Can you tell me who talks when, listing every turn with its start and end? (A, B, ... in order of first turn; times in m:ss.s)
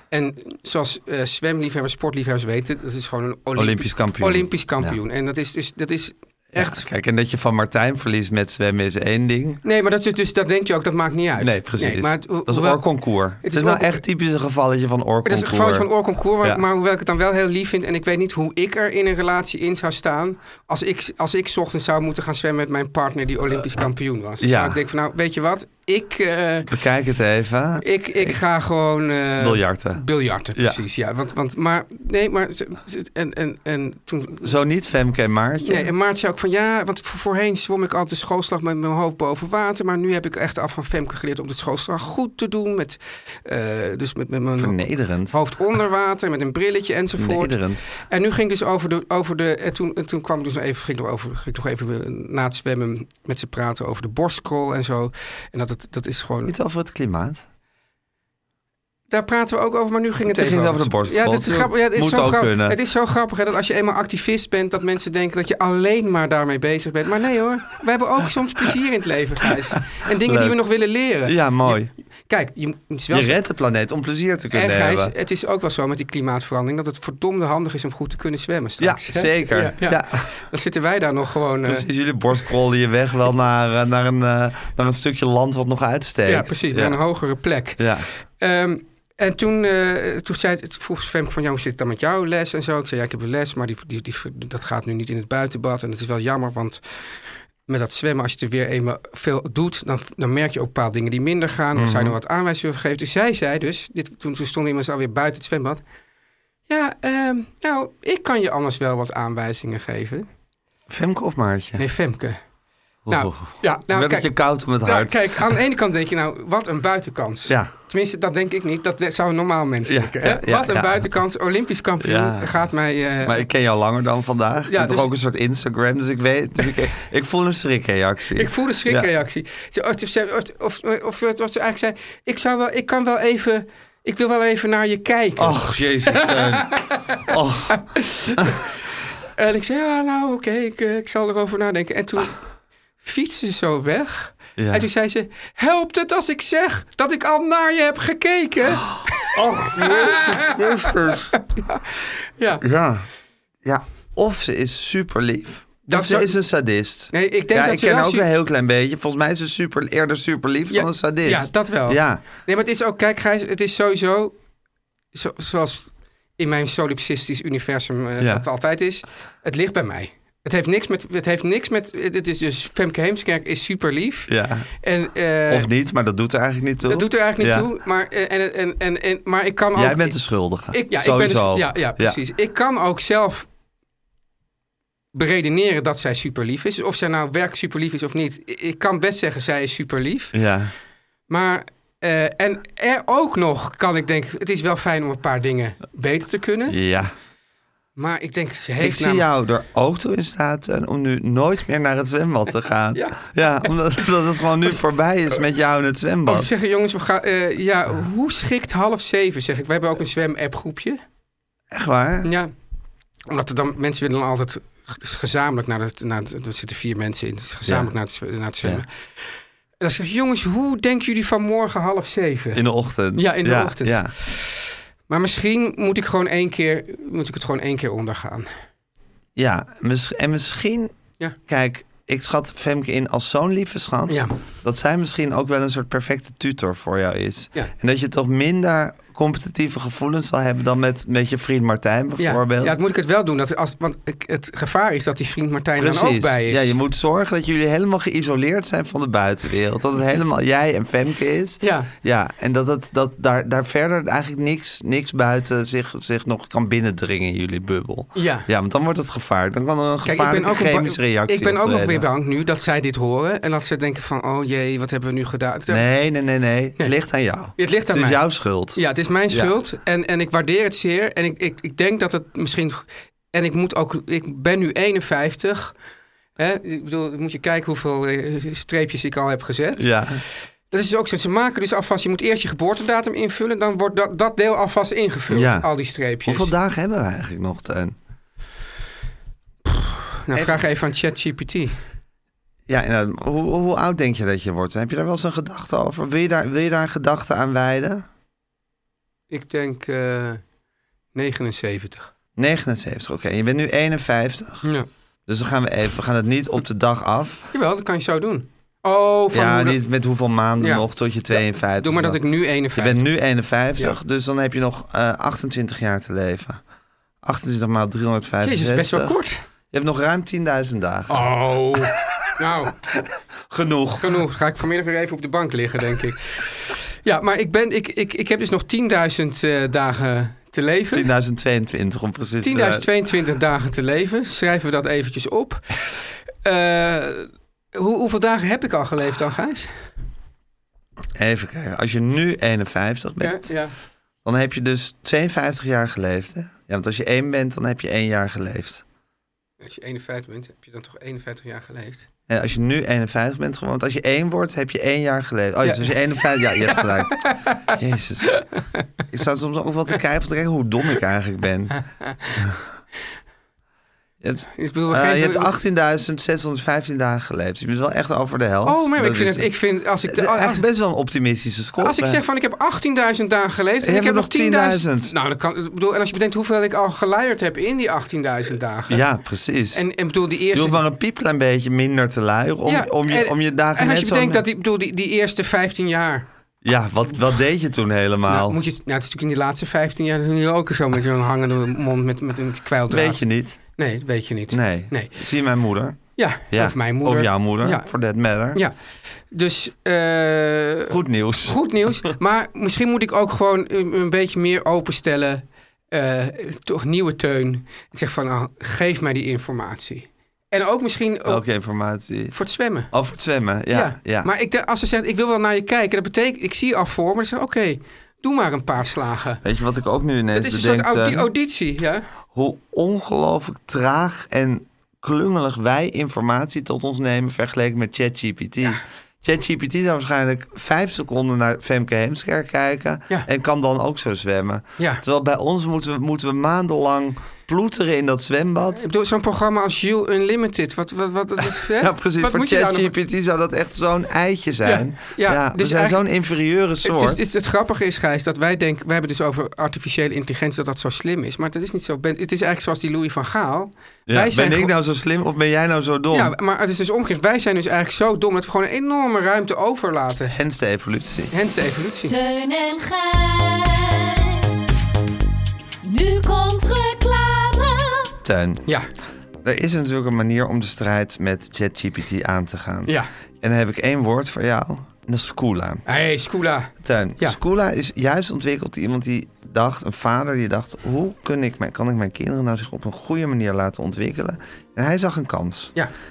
0:00.1-0:06.9 A
0:03.5-0:05.0 B
0:06.5-0:09.6 B
0:09.6-0:12.8 A
0:11.4-0:15.9 B
0:13.4-0:14.0 A
0:15.2-0:26.7 A
0:24.4-0:24.8 B
0:26.7-0:28.4 B
0:27.8-0:34.5 A
0:29.4-0:30.0 B
0:30.5-0:30.8 B
0:34.4-0:35.9 B
0:35.6-0:56.5 A
0:44.6-0:45.4 B
0:47.2-0:47.8 B
0:56.4-0:57.4 B
0:59.1-1:13.4 A
1:00.3-1:02.8 B
1:10.2-1:10.6 B
1:11.2-1:11.9 B
1:13.1-1:15.1 B
1:14.5-1:21.8 A
1:18.8-1:20.3 B
1:21.6-1:27.0 B
1:26.2-1:27.9 A
1:27.8-1:28.1 B
1:28.4-1:36.8 A
1:37.7-1:45.8 A
1:41.7-1:42.2 B
1:46.7-1:50.3 A
1:50.9-1:51.8 B
1:51.8-1:52.4 A
1:53.0-1:55.5 B
1:53.1-2:03.5 A
1:59.8-2:01.1 B
2:02.0-2:02.6 B
2:03.2-2:09.1 B
2:04.7-2:05.1 A
2:08.4-2:18.8 A
2:15.4-2:17.9 B
2:19.4-2:22.4 A
2:23.0-2:32.6 A
2:24.6-2:24.8 B
2:29.3-2:31.3 B
2:32.6-2:33.1 B
2:33.6-2:42.2 B
2:35.9-2:36.4 A
2:37.1-2:38.3 A
2:40.7-2:44.3 A
2:45.1-2:54.3 A
2:48.2-2:48.4 B
2:54.3-2:54.7 B
2:54.8-2:55.7 A
2:55.5-2:57.7 B
2:56.8-3:00.2 A
2:59.7-3:02.2 B
3:00.7-3:03.5 A
3:05.1-3:10.4 A
3:10.3-3:10.7 B
3:11.3-3:16.8 A
3:16.7-3:17.1 B
3:18.0-3:19.2 A
3:18.8-3:26.5 B
3:22.9-3:23.2 A
3:26.2-3:31.0 A
3:31.7-3:32.3 B
3:32.2-3:32.5 A
3:33.3-3:38.9 A
3:37.6-3:37.9 B
3:39.8-3:42.6 A
3:42.5-3:44.1 B
3:43.2-3:48.5 A
3:49.4-3:50.9 B
3:51.5-4:02.8 B
3:54.1-3:54.4 A
4:02.2-4:06.8 A
4:05.8-4:22.0 B
4:11.6-4:11.9 A
4:18.1-4:18.5 A
4:20.0-4:25.8 A
4:25.7-4:29.5 B
4:27.6-4:28.2 A
4:28.7-4:35.7 A
4:36.4-4:39.9 A
4:39.8-4:40.2 B
4:40.7-4:46.5 A
4:45.3-4:45.7 B
4:46.2-4:48.0 B
4:49.6-4:51.8 A
4:50.3-4:50.6 B
4:52.7-4:58.0 B
4:59.3-5:00.4 A
5:01.1-5:02.1 A
5:02.4-5:04.6 B
5:05.3-5:07.5 B
5:07.5-5:09.8 A
5:09.3-5:12.2 B
5:10.6-5:13.0 A
5:12.7-5:16.6 B
5:17.2-5:19.1 B
5:18.4-5:19.4 A
5:19.7-5:22.3 B
5:21.1-5:22.8 A
5:22.9-5:24.2 B
5:24.0-5:31.1 A
5:30.9-5:32.8 B
5:32.4-5:39.7 A
5:41.2-5:43.5 B
5:43.2-5:43.7 A
5:44.2-5:48.8 B
5:49.6-5:52.0 A
5:52.3-5:58.4 B
5:55.6-5:55.9 A
5:56.6-5:57.7 A
5:58.3-5:58.8 A
5:59.1-6:01.8 B
6:02.0-6:02.4 A
6:04.2-6:09.5 B
6:04.6-6:05.6 A
6:08.6-6:10.6 A
6:10.0-6:12.2 B
6:11.8-6:19.0 A
6:13.8-6:15.1 B
6:18.9-6:19.8 B
6:19.7-6:20.8 A
6:20.5-6:24.4 B
6:22.6-6:26.2 A
6:26.6-6:28.6 B
6:28.3-6:33.2 A
6:32.9-6:33.6 B
6:33.8-6:35.1 A
6:34.5-6:36.0 B
6:36.2-6:37.9 A
6:36.5-6:38.6 B
6:39.3-6:51.4 A
6:40.9-6:42.1 B
6:51.2-6:52.4 B
6:52.3-6:52.9 A
6:52.9-6:54.3 B
6:53.7-6:59.4 A
6:59.4-7:01.3 B
7:00.3-7:02.0 A
7:02.3-7:18.8 B
7:18.7-7:22.9 A
7:21.5-7:27.2 B
7:24.6-7:26.0 A
7:26.8-7:34.7 A
7:34.1-7:36.3 B
7:36.1-7:40.4 A
7:40.3-7:41.3 B
7:41.3-7:42.1 A
7:42.0-7:44.8 C
7:45.8-7:48.1 C
7:48.2-7:48.6 B
7:49.4-7:55.8 B
7:55.9-7:57.4 A
7:56.8-8:05.7 B